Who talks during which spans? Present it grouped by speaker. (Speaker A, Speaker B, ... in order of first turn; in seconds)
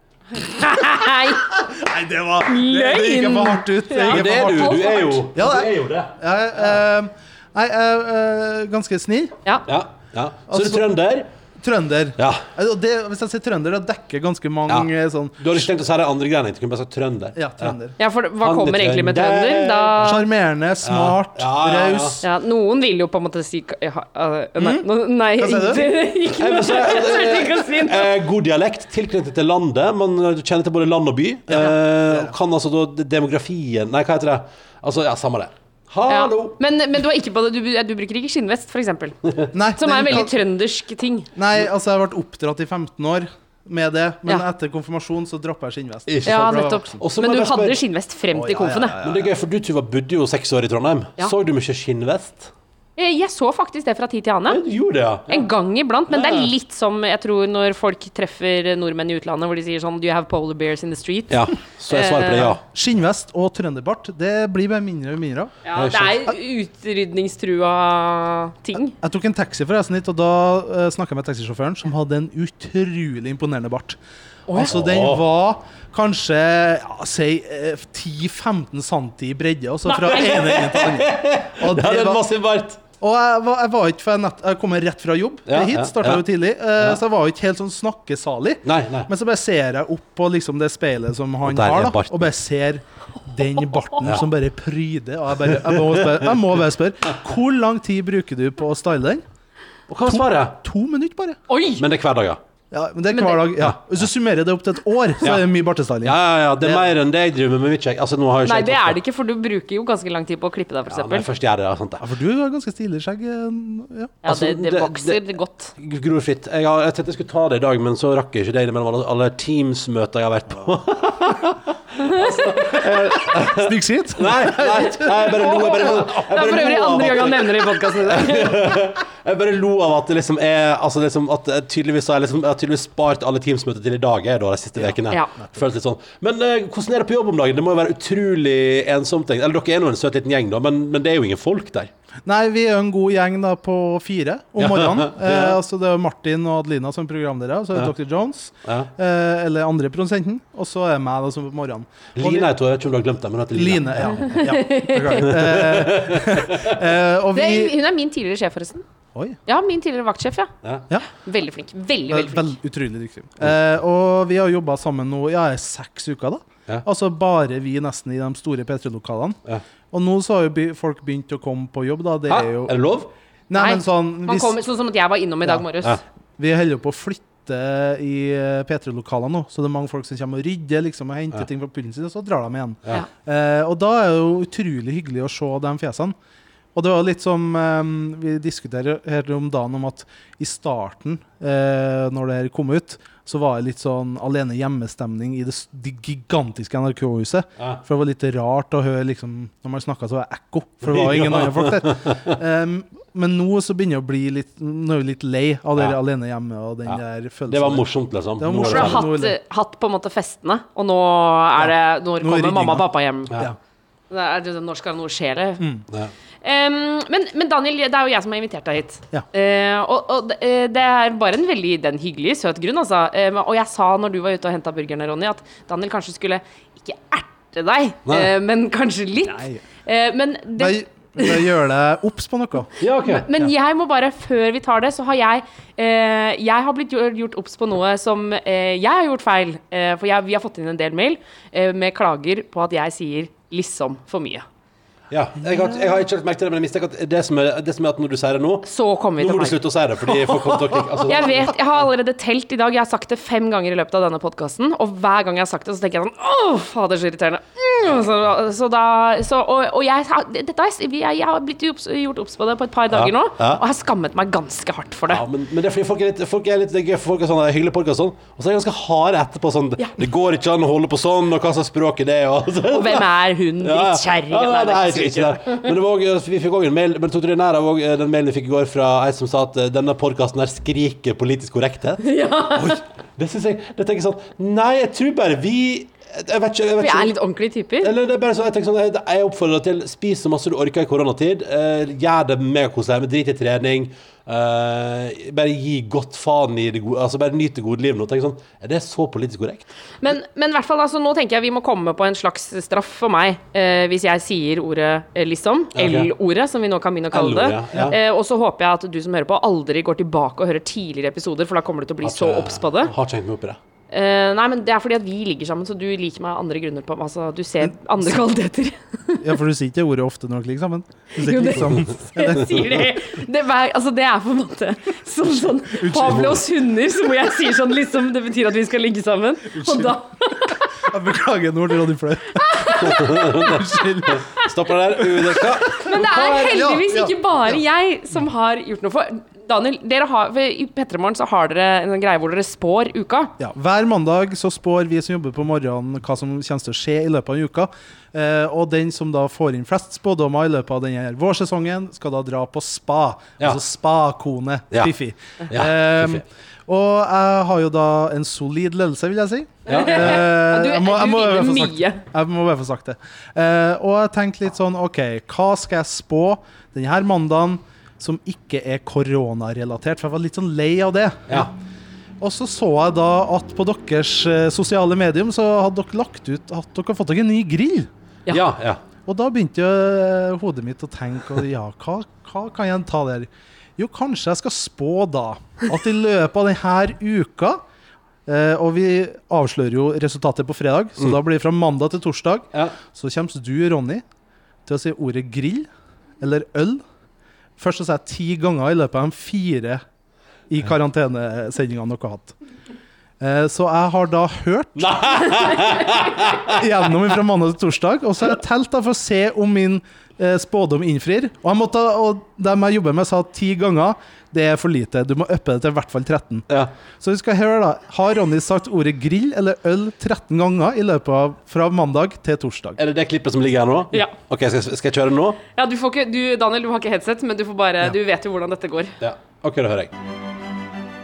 Speaker A: 0.4-1.5, 2.4-5.3, 18.0-20.2, 22.2-28.1, 36.1-39.2, 39.8-41.3, 46.2-49.0, 53.0-54.6, 55.3-62.6, 65.6-68.9, 74.5-74.7, 79.9-80.2, 101.5-101.8, 103.1-103.5, 108.4-111.3, 114.2-115.7, 122.0-122.3, 125.0-128.7, 154.2-155.3, 157.3-158.8, 159.4-160.5, 161.1-162.5, 173.5-176.0, 208.6-213.5, 214.1-215.6, 216.4-231.4, 233.0-244.4, 248.6-249.6, 251.0-265.2, 272.7-275.7, 282.0-282.8, 286.8-287.9, 300.0-312.9, 313.9-319.2, 321.2-330.6, 332.4-333.6, 335.7-343.3, 359.6-362.0, 425.5-428.9
Speaker B: 1.5-9.3, 10.5-10.9, 11.6-15.7, 17.3-17.9, 20.0-22.3, 24.6-25.9, 31.5-32.3, 39.5-40.3, 41.4-47.0, 48.3-49.3, 62.5-65.6, 69.0-74.0, 74.5-82.2, 83.0-99.2, 100.1-101.4, 102.7-106.8, 112.0-114.2, 122.7-126.1, 134.8-135.6, 142.2-152.5, 153.5-157.7, 162.1-169.4, 169.9-172.8, 173.5-174.6, 176.4-186.1, 186.7-207.8, 208.4-209.4, 211.6-213.5, 215.6-215.8, 229.2-229.6, 230.6-232.7, 319.2-322.9, 325.7-326.4, 329.5-330.0, 330.7-334.3, 335.0-337.6, 343.4-371.5, 372.2-377.9, 379.0-387.6, 388.2-394.0, 394.6-395.7, 396.2-396.8, 397.6-399.8, 400.5-402.3, 403.2-405.7, 406.5-416.5, 417.0-422.8
Speaker C: 4.0-6.1, 9.7-11.3, 12.2-12.5, 14.7-17.8, 18.4-20.2, 20.8-22.2, 26.1-36.5, 39.2-39.5, 46.1-47.8, 49.0-52.5, 54.5-55.5, 56.1-56.5, 61.3-62.6, 65.8-66.3, 74.6-75.2, 79.9-82.8, 85.5-86.2, 88.6-89.1, 91.4-92.3, 94.0-94.3, 95.4-96.4, 99.9-100.6, 101.8-102.4, 105.2-105.5, 106.0-109.0, 110.9-112.0, 114.2-115.2, 115.8-141.9, 144.6-145.6, 148.6-148.9, 152.2-154.3, 155.1-156.8, 172.3-173.1, 200.8-202.1, 206.8-209.1, 232.8-233.3, 245.1-251.6, 262.9-263.6, 265.1-287.1, 287.8-299.7, 305.7-306.1, 307.1-308.0, 312.0-313.6, 325.9-326.4, 332.7-336.6, 355.5-356.2, 359.7-360.3, 378.3-378.8, 404.8-406.6, 422.8-425.4, 429.0-429.9